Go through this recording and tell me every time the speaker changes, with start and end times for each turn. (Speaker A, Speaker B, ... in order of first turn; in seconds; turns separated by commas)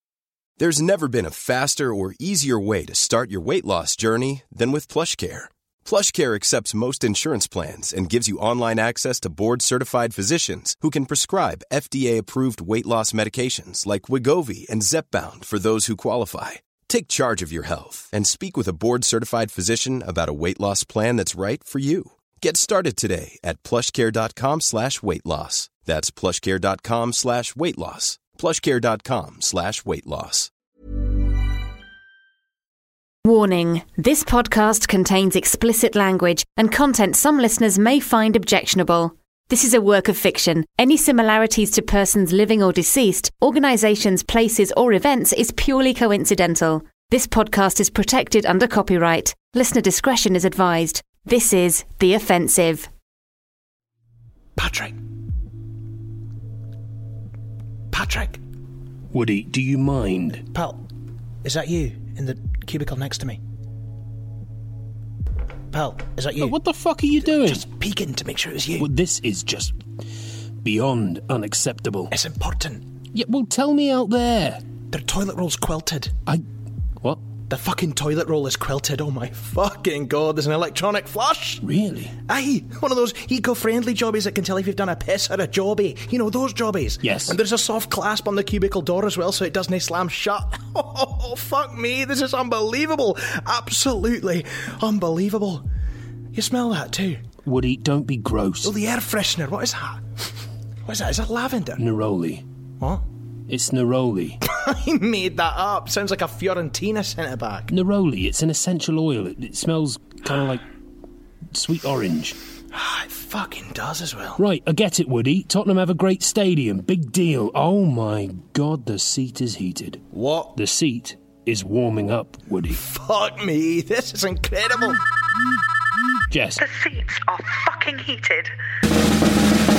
Speaker A: 0.6-30.5, Speaker B: 33.2-52.9, Speaker C: 54.6-55.0, Speaker C: 57.9-58.4, Speaker D: 59.1-60.4, Speaker C: 60.5-60.8, Speaker C: 61.4-63.4, Speaker C: 65.7-66.6, Speaker D: 66.4-67.6, Speaker C: 67.3-68.9, Speaker D: 68.8-69.8, Speaker D: 70.6-72.1, Speaker C: 72.1-72.8, Speaker D: 73.1-74.6, Speaker C: 74.9-76.1, Speaker C: 77.5-81.6, Speaker D: 81.6-82.1, Speaker C: 82.3-95.7, Speaker D: 87.0-87.4, Speaker C: 96.3-97.2, Speaker D: 97.4-98.7, Speaker C: 98.6-100.0, Speaker C: 100.8-101.8, Speaker D: 101.8-102.4, Speaker C: 102.8-103.0, Speaker D: 103.5-104.4, Speaker C: 104.4-107.7, Speaker D: 107.7-110.7, Speaker D: 111.5-112.3, Speaker C: 112.7-114.4, Speaker D: 114.4-120.0, Speaker C: 120.1-120.5, Speaker D: 120.5-122.8, Speaker C: 122.7-125.0, Speaker D: 126.3-126.6, Speaker E: 126.6-128.5